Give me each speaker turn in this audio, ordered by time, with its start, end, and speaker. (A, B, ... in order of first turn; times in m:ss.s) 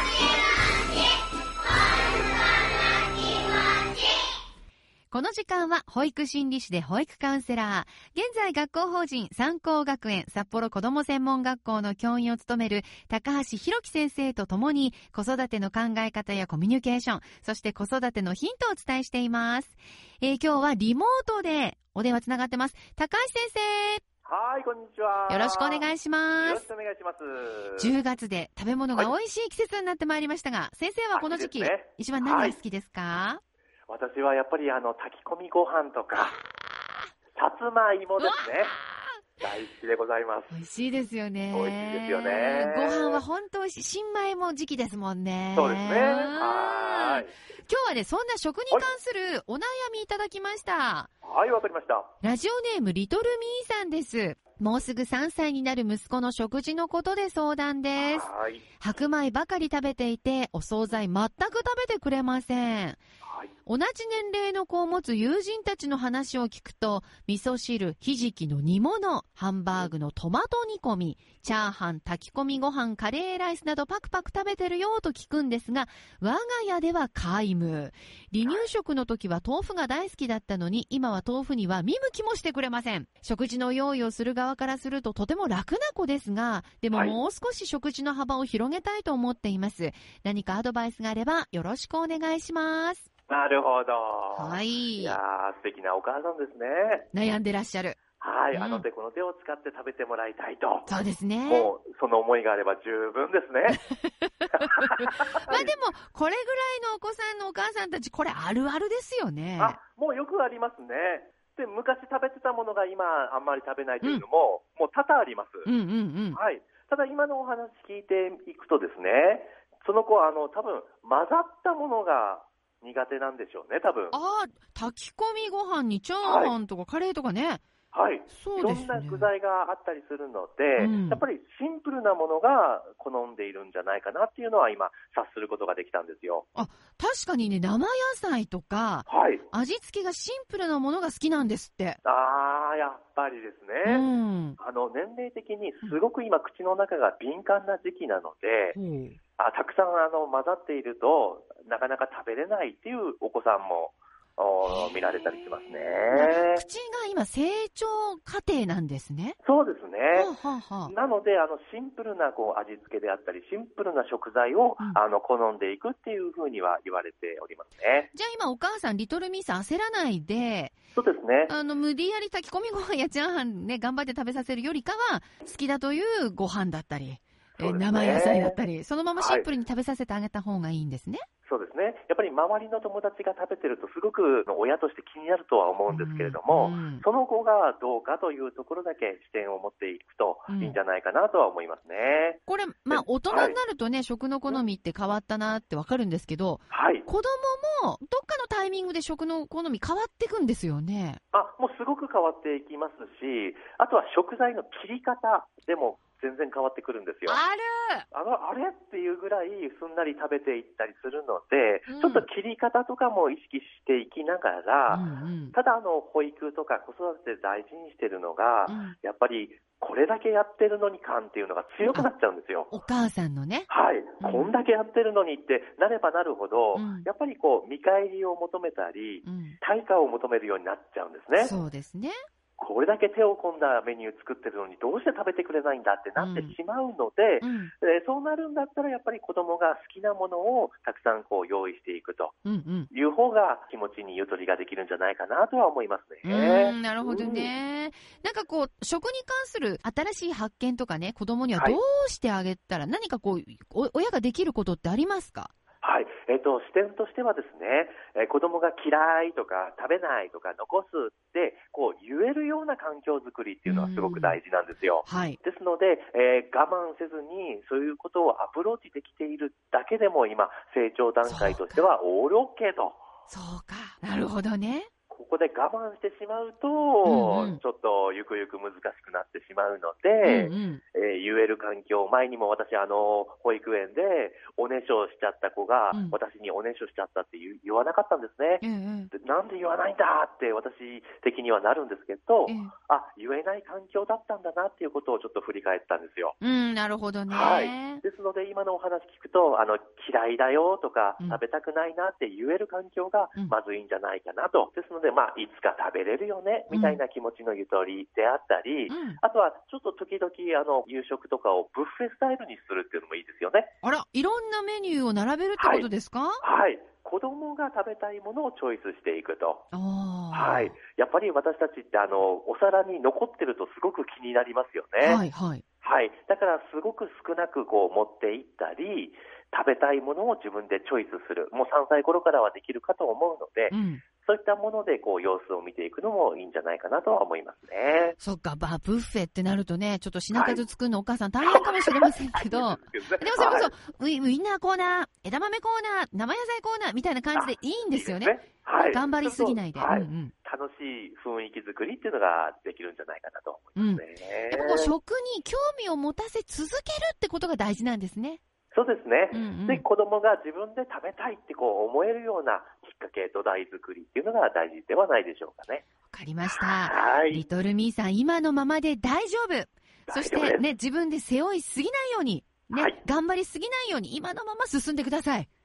0:05.1-0:24.0 A
0:24.2-0:27.9 B
0:25.3-0:26.7 A
0:27.8-0:33.4 A
0:31.1-0:32.6 B
0:33.9-0:36.4 B
0:37.4-0:38.8 B
0:38.2-0:39.1 A
0:39.4-0:40.5 B
0:40.5-0:51.1 A
0:41.5-0:43.2 B
0:45.6-0:47.3 B
0:51.2-0:52.1 B
0:52.2-0:58.3 A
0:58.0-0:58.6 B
0:58.8-1:03.0 A
1:03.2-1:03.5 B
1:03.7-1:33.1 A
1:26.9-1:27.2 B
1:33.3-1:37.1 B
1:34.4-1:35.2 A
1:37.1-1:38.0 A
1:38.2-1:40.9 B
1:38.5-1:38.9 A
1:40.9-1:41.7 A
1:41.5-1:43.8 B
1:44.0-1:49.8 A
1:44.5-1:45.7 B
1:49.6-1:55.7 B
1:55.6-1:56.4 A
1:56.3-2:04.2 B
2:04.1-2:07.6 A
2:06.2-2:06.5 B
2:07.9-2:16.5 B
2:08.3-2:09.3 A
2:10.8-2:11.2 A
2:16.6-2:22.0 A
2:19.1-2:19.5 B
2:22.0-2:24.0 B
2:23.8-2:24.6 A
2:24.6-2:28.8 B
2:28.8-2:29.2 A
2:29.4-2:36.6 B
2:34.6-2:35.4 A
2:36.1-2:39.4 A
2:39.4-2:40.3 B
2:40.1-2:40.9 A
2:40.9-2:48.1 B
2:48.1-2:50.8 A
2:51.0-2:51.5 B
2:51.5-3:01.2 A
2:57.6-2:58.6 B
2:59.2-2:59.5 B
3:01.5-3:13.6 B
3:05.9-3:07.0 A
3:10.5-3:10.8 A
3:12.5-3:21.2 A
3:16.7-3:17.1 B
3:21.3-3:27.4 B
3:27.3-3:28.1 A
3:28.1-3:42.7 B
3:31.9-3:32.3 A
3:34.9-3:35.6 A
3:38.7-3:39.0 A
3:42.7-3:43.7 A
3:43.7-3:51.6 B
3:44.2-3:44.5 A
3:46.8-3:47.1 A
3:49.2-3:49.6 A
3:51.4-3:52.2 A
3:52.6-4:02.4 B
3:56.2-3:56.6 A
3:57.4-3:57.7 A
4:02.4-4:02.9 A
4:02.9-4:07.5 B
4:06.2-4:15.5 A
4:15.8-4:33.0 B
4:23.7-4:24.4 A
4:25.1-4:25.4 A
4:31.2-4:31.9 A
4:33.3-4:34.9 A
4:35.1-4:56.4 B
4:37.0-4:37.6 A
4:40.2-4:40.8 A
4:45.9-4:46.2 A
4:48.6-4:49.1 A
4:52.5-4:52.7 A
4:56.4-4:58.0 A
4:57.3-5:13.7 B
5:06.7-5:07.0 A
5:08.9-5:09.2 A
5:13.8-5:16.4 A
5:15.6-5:15.9 B
5:16.4-5:19.6 B
5:19.7-5:20.8 A
5:20.3-5:25.2 B
5:25.0-5:25.6 A
5:25.8-5:38.2 B
5:33.7-5:34.0 A
5:38.2-5:50.3 A
5:40.3-5:40.6 B
5:41.4-5:43.7 B
5:47.4-5:55.0 B
5:53.8-5:58.4 A
5:58.7-6:05.8 B
5:59.3-5:59.8 A
6:06.1-6:15.5 A
6:06.5-6:07.4 B
6:10.1-6:10.6 B
6:12.7-6:13.0 B